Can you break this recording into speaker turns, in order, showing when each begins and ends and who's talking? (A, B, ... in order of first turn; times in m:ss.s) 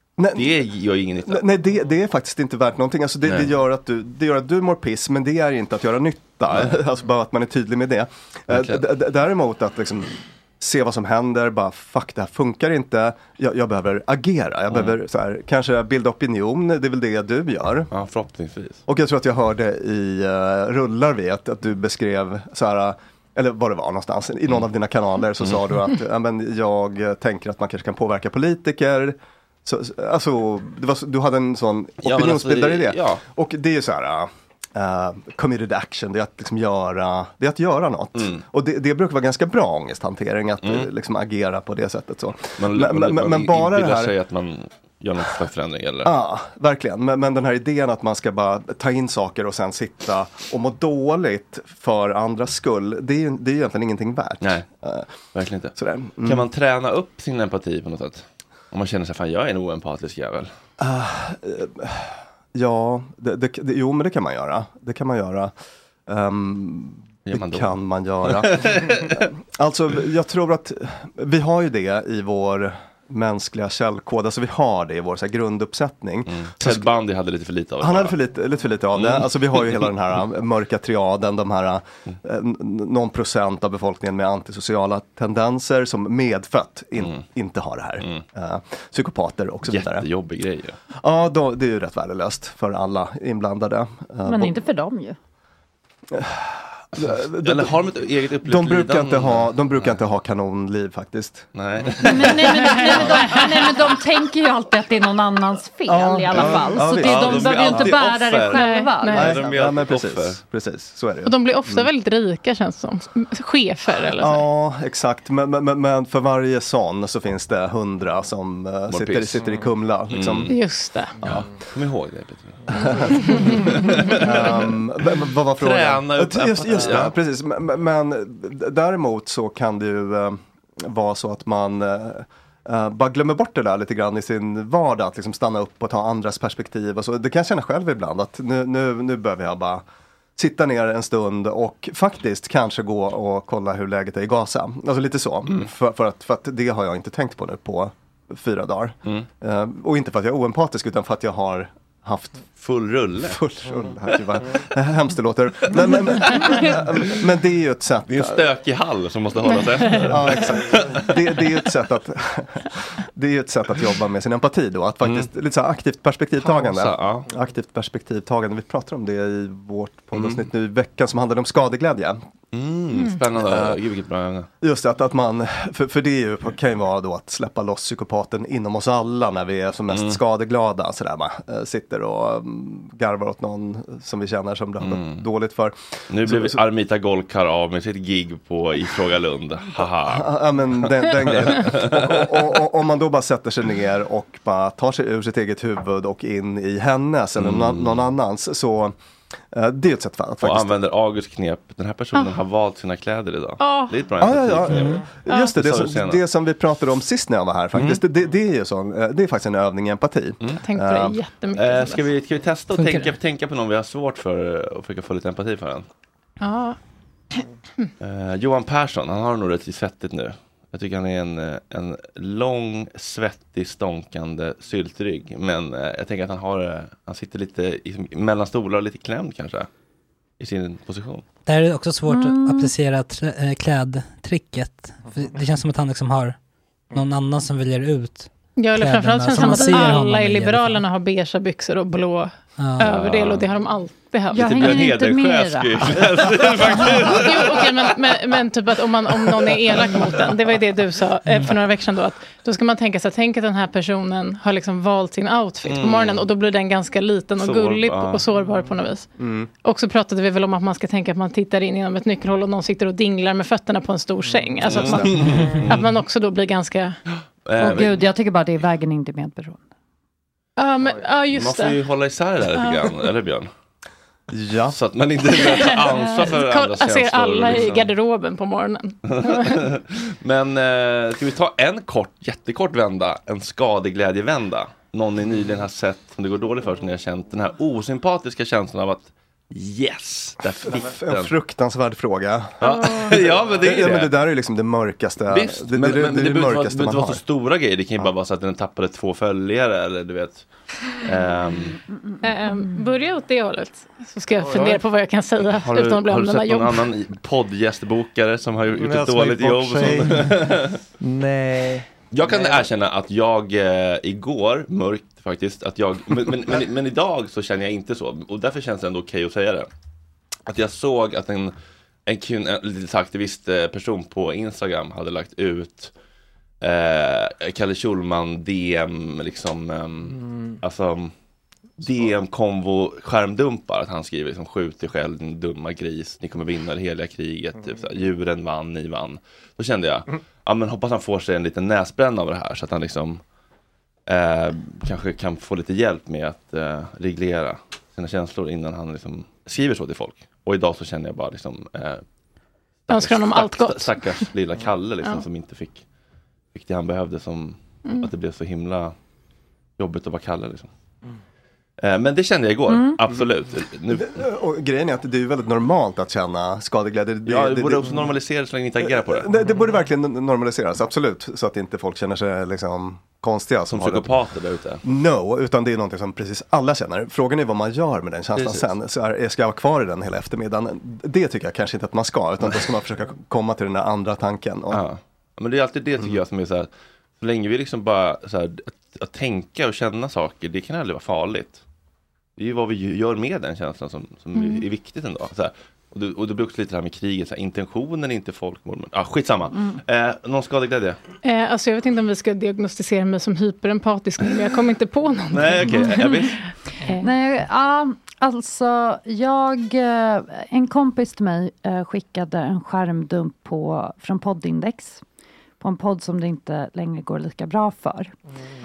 0:00.2-0:00.5 A
0:00.3-0:01.5 B
0:01.3-0:17.9 A
0:08.5-0:08.8 B
0:14.7-0:15.0 B
0:17.9-0:18.8 B
0:18.9-0:44.1 A
0:32.0-0:33.2 B
0:38.2-0:38.4 B
0:42.6-0:46.1 B
0:46.0-0:55.1 A
0:54.4-0:54.7 B
0:55.3-1:00.5 B
0:55.8-0:56.5 A
1:00.8-1:05.5 A
1:06.1-1:16.9 A
1:07.3-1:09.2 B
1:16.3-1:18.2 B
1:17.8-1:30.1 A
1:18.9-1:19.9 B
1:27.0-1:27.2 B
1:29.7-1:30.8 B
1:30.9-1:34.6 A
1:34.2-1:35.2 C
1:36.1-1:37.8 A
1:37.0-1:40.0 B
1:38.4-1:43.4 A
1:41.5-1:43.4 B
1:42.0-1:49.3 C
1:45.9-1:48.0 A
1:46.4-1:50.4 B
1:48.5-1:49.4 D
1:49.1-1:51.3 A
1:51.2-1:54.4 D
1:54.2-2:00.5 A
1:58.9-2:00.6 B
2:00.5-2:01.2 D
2:01.2-2:07.2 B
2:02.7-2:04.1 D
2:04.2-2:19.8 A
2:20.4-2:32.5 A
2:32.6-2:33.5 B
2:33.2-2:38.4 A
2:35.7-2:36.7 B
2:38.1-2:41.4 B
2:40.0-2:52.2 A
2:45.0-2:45.3 B
2:46.4-2:47.3 B
2:50.1-2:50.5 B
2:52.5-2:54.5 B
2:53.4-2:53.8 A
2:54.6-3:06.6 A
2:59.9-3:00.2 B
3:04.8-3:05.2 B
3:06.1-3:12.4 B
3:09.7-3:19.0 A
3:17.4-3:18.0 B
3:19.5-3:20.8 A
3:20.4-3:26.2 B
3:22.1-3:22.4 D
3:23.6-3:24.0 D
3:24.2-3:31.2 A
3:24.7-3:25.0 E
3:25.3-3:25.5 D
3:27.8-3:28.0 B
3:30.6-3:32.0 D
3:31.6-3:35.9 B
3:32.7-3:33.1 E
3:36.4-3:36.8 D
3:38.0-3:49.7 B
3:50.4-3:51.2 B
3:51.5-3:56.4 E
3:52.1-3:52.7 C
3:56.9-4:00.8 E
3:58.6-4:04.8 D
3:59.4-4:00.0 C
4:02.6-4:02.9 E
4:02.8-4:03.5 B
4:04.3-4:07.1 C
4:04.3-4:07.9 B
4:07.1-4:19.1 D
4:11.3-4:11.5 E
4:15.6-4:16.3 B
4:17.4-4:18.2 B
4:19.2-4:19.5 A
4:19.6-4:27.0 D
4:24.6-4:25.8 B
4:27.4-4:28.1 B
4:27.6-4:29.6 C
4:30.6-4:31.8 D
4:31.3-4:33.5 B
4:32.5-4:33.0 D
4:34.3-4:34.8 A
4:34.7-4:37.9 B
4:35.3-4:39.6 D
4:39.1-4:51.3 B
4:50.6-4:57.2 A
4:52.6-4:54.2 B
4:52.7-4:53.2 D
4:55.3-5:00.5 B
5:01.0-5:01.8 B
5:01.9-5:02.8 C
5:02.2-5:06.9 D
5:04.4-5:04.8 F
5:05.4-5:10.8 B
5:08.8-5:10.5 F
5:11.0-5:12.6 F
5:12.1-5:19.7 B
5:20.5-5:21.5 B
5:22.1-5:25.9 B
5:26.6-5:31.1 B
5:30.2-5:30.5 F
5:31.8-5:43.2 B
5:44.1-5:52.0 B
5:52.9-5:55.8 B
5:52.9-5:54.3 D
5:56.5-5:58.9 B
5:57.8-5:58.1 D
5:59.8-6:00.7 B
6:01.8-6:04.2 B
6:02.7-6:03.0 C
6:03.9-6:08.1 A
6:07.2-6:09.3 B
6:08.8-6:14.1 A
6:13.7-6:14.8 B
6:14.8-6:24.8 A
6:18.4-6:18.7 B
6:24.7-6:31.6 B
6:32.4-6:41.0 B
6:39.5-6:39.8 C
6:41.2-6:47.0 D
6:45.3-6:46.4 B
6:47.0-6:55.0 C
6:55.6-6:58.1 C